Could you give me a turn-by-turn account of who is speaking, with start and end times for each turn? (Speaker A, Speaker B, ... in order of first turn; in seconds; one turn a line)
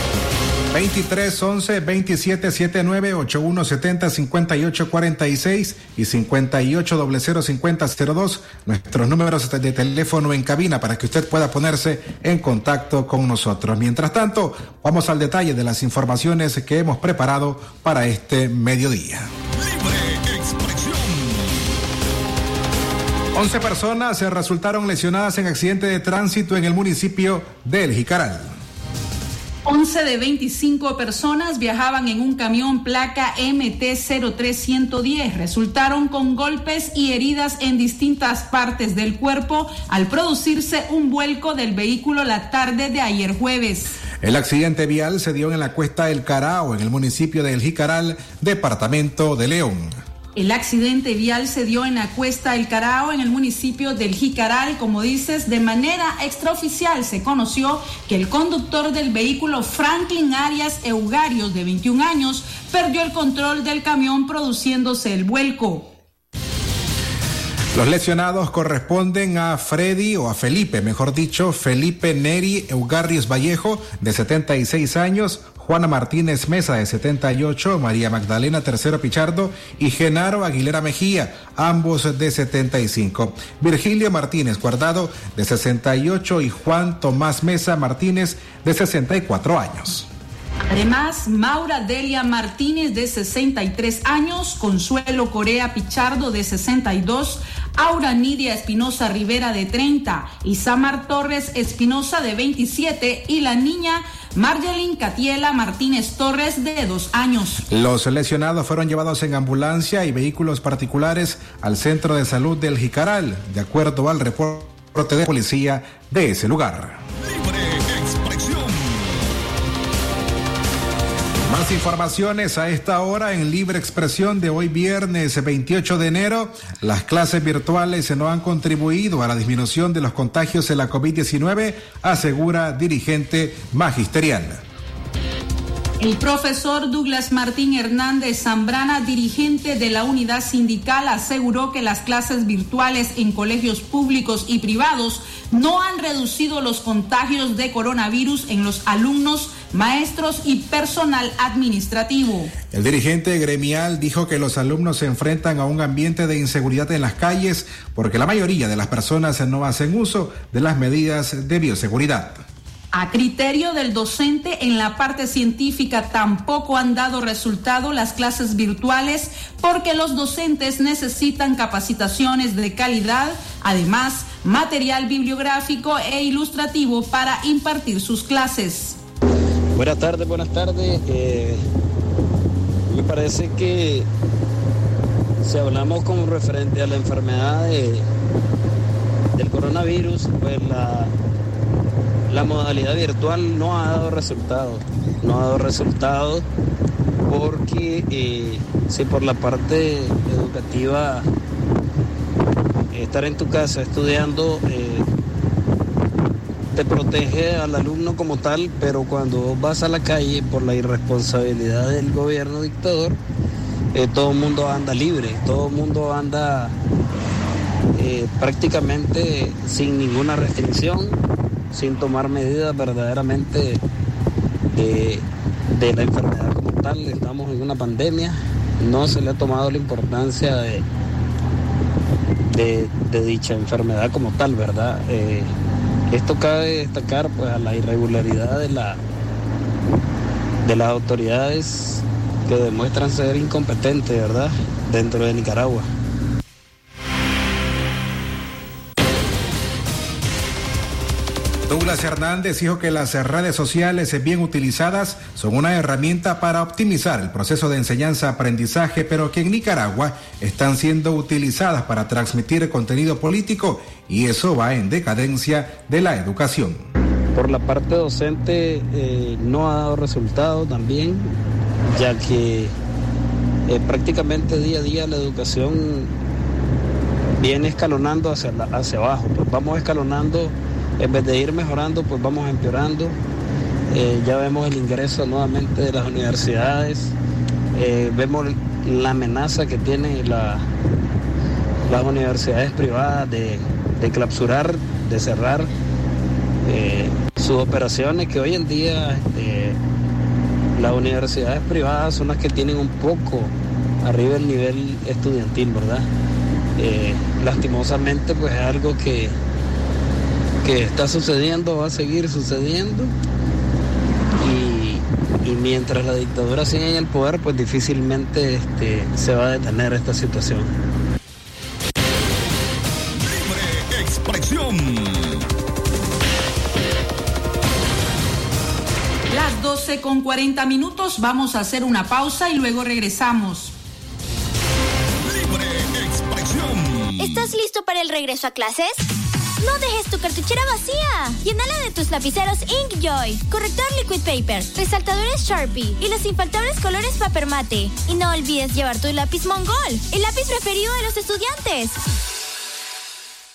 Speaker A: 0.7-19.3
Speaker B: 19.5-21.8
Speaker A: 23.3-28.5
Speaker C: 29.6-44.0
Speaker A: 44.2-50.0
Speaker C: 50.4-66.0
Speaker A: 67.7-90.1
Speaker C: 90.7-107.7
Speaker A: 107.7-117.0
Speaker B: 117.2-119.4
Speaker A: 121.5-134.6
Speaker C: 136.0-152.5
Speaker A: 152.7-162.4
Speaker C: 162.9-179.0
Speaker D: 179.7-181.6
Speaker D: 182.9-184.1
Speaker D: 185.4-188.1
Speaker D: 189.4-191.1
Speaker D: 192.3-196.4
Speaker D: 197.3-201.3
Speaker D: 202.9-205.1
Speaker D: 206.8-213.2
Speaker D: 213.9-216.7
Speaker D: 218.0-221.2
Speaker D: 221.7-223.8
Speaker D: 224.7-230.8
Speaker D: 232.5-235.5
Speaker D: 236.1-239.0
Speaker D: 240.6-245.9
Speaker A: 251.7-266.9
Speaker D: 267.3-271.3
Speaker D: 271.9-272.7
Speaker D: 273.7-276.1
Speaker D: 277.4-283.2
Speaker D: 283.9-287.1
Speaker D: 287.8-290.6
Speaker D: 291.9-295.7
Speaker D: 296.6-299.8
Speaker D: 300.8-306.1
Speaker D: 306.8-309.4
Speaker D: 310.6-313.1
Speaker D: 314.4-320.7
Speaker B: 323.1-325.5
Speaker C: 329.3-333.8
Speaker B: 335.2-337.4
Speaker E: 337.2-339.1
Speaker E: 339.6-352.0